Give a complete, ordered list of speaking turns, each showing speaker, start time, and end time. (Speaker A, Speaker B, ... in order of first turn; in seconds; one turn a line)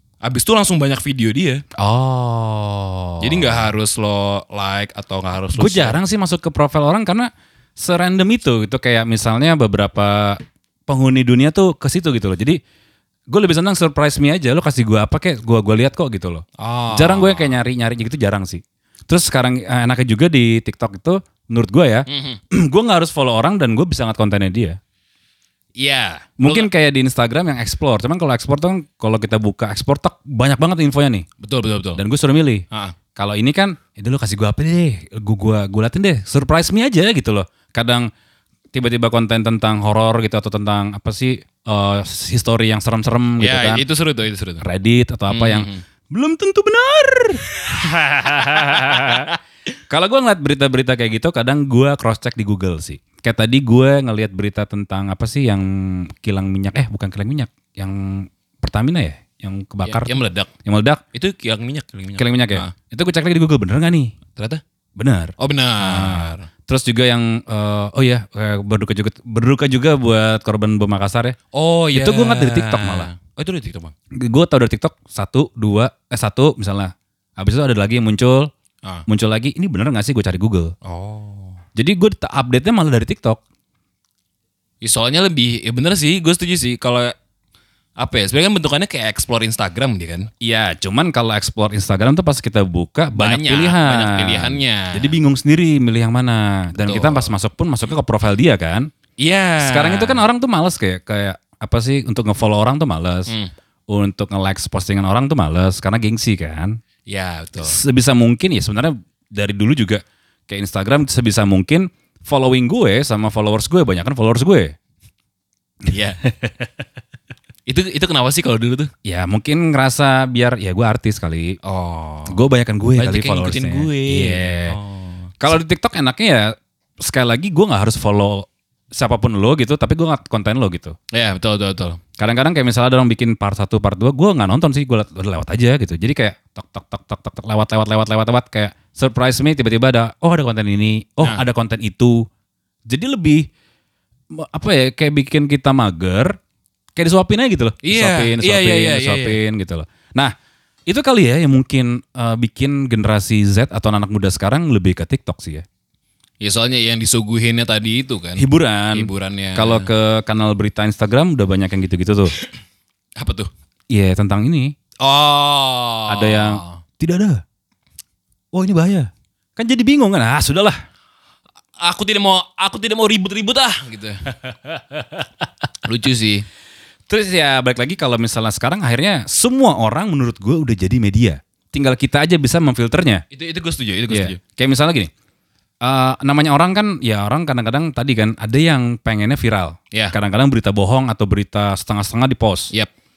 Speaker A: 0.2-1.6
Speaker B: 1.8-3.7
Speaker A: 3.2-6.0
Speaker B: 5.5-12.6
Speaker B: 13.3-24.8
Speaker A: 16.6-17.6
Speaker A: 22.1-22.4
Speaker A: 25.8-26.7
Speaker B: 26.4-31.3
Speaker A: 31.4-32.0
Speaker B: 32.0-32.6
Speaker B: 33.2-38.1
Speaker B: 38.7-43.8
Speaker A: 43.4-44.6
Speaker B: 44.6-49.3
Speaker A: 45.3-45.8
Speaker A: 48.3-49.3
Speaker B: 49.9-61.0
Speaker A: 59.8-60.5
Speaker A: 61.1-62.7
Speaker B: 62.2-64.2
Speaker A: 64.4-64.6
Speaker B: 65.0-71.4
Speaker A: 65.4-66.5
Speaker A: 71.5-73.9
Speaker B: 71.9-73.1
Speaker B: 74.1-78.5
Speaker B: 79.1-80.7
Speaker A: 80.8-81.6
Speaker B: 81.8-83.4
Speaker A: 84.8-87.1
Speaker A: 88.0-90.3
Speaker B: 90.4-98.9
Speaker A: 93.2-95.2
Speaker A: 96.8-97.3
Speaker A: 99.2-100.2
Speaker B: 99.6-103.3
Speaker B: 103.9-106.8
Speaker A: 107.1-107.8
Speaker B: 107.6-114.8
Speaker A: 115.9-116.2
Speaker B: 116.2-116.5
Speaker A: 117.7-118.9
Speaker B: 119.0-121.6
Speaker A: 121.6-122.4
Speaker B: 122.3-124.8
Speaker A: 123.0-125.3
Speaker B: 125.4-131.0
Speaker A: 131.1-132.0
Speaker B: 132.2-142.3
Speaker B: 142.9-143.5
Speaker B: 144.3-146.4
Speaker B: 147.0-150.3
Speaker A: 147.8-149.4
Speaker B: 150.9-155.7
Speaker A: 156.4-159.9
Speaker B: 158.4-162.3
Speaker A: 163.2-163.5
Speaker B: 163.9-164.7
Speaker A: 165.0-166.8
Speaker B: 166.1-167.4
Speaker B: 168.5-170.8
Speaker A: 171.8-174.4
Speaker A: 175.8-176.5
Speaker B: 177.1-183.2
Speaker A: 183.3-184.4
Speaker B: 184.1-185.1
Speaker B: 185.8-192.7